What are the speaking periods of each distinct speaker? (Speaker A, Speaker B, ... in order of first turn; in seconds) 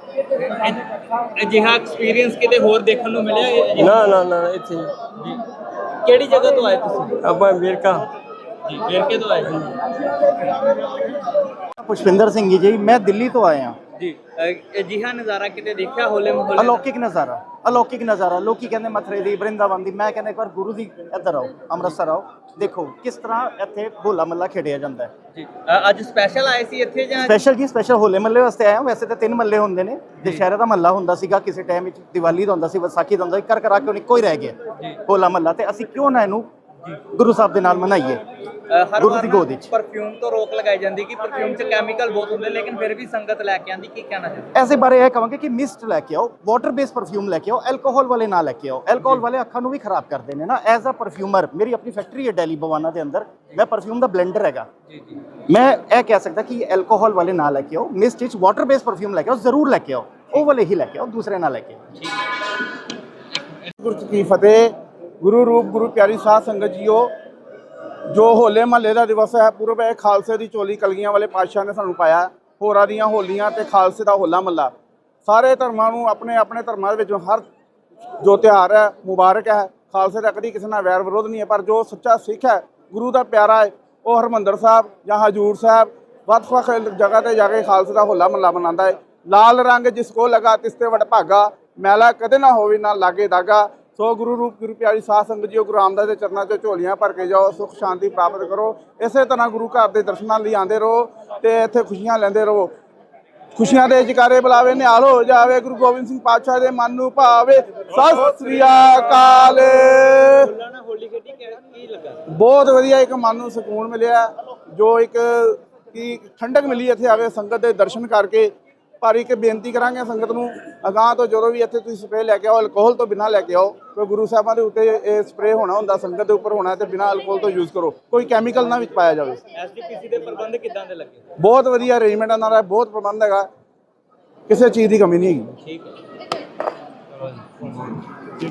Speaker A: 0.3-4.1, 6.0-7.2, 8.6-10.9, 14.0-16.8, 25.3-27.4, 38.7-44.5, 110.3-112.2, 129.5-131.2, 135.6-136.0, 137.1-137.9
Speaker B: 3.8-4.9, 7.2-8.1
Speaker C: 11.8-13.8, 16.6-25.1, 27.2-36.5, 37.1-38.2, 39.0-39.7, 44.5-54.7, 55.5-61.8
Speaker D: 63.8-67.1, 68.1-74.7, 75.2-77.5, 78.2-102.7, 103.5-110.5, 112.3-129.4, 131.4-133.5, 134.5-135.5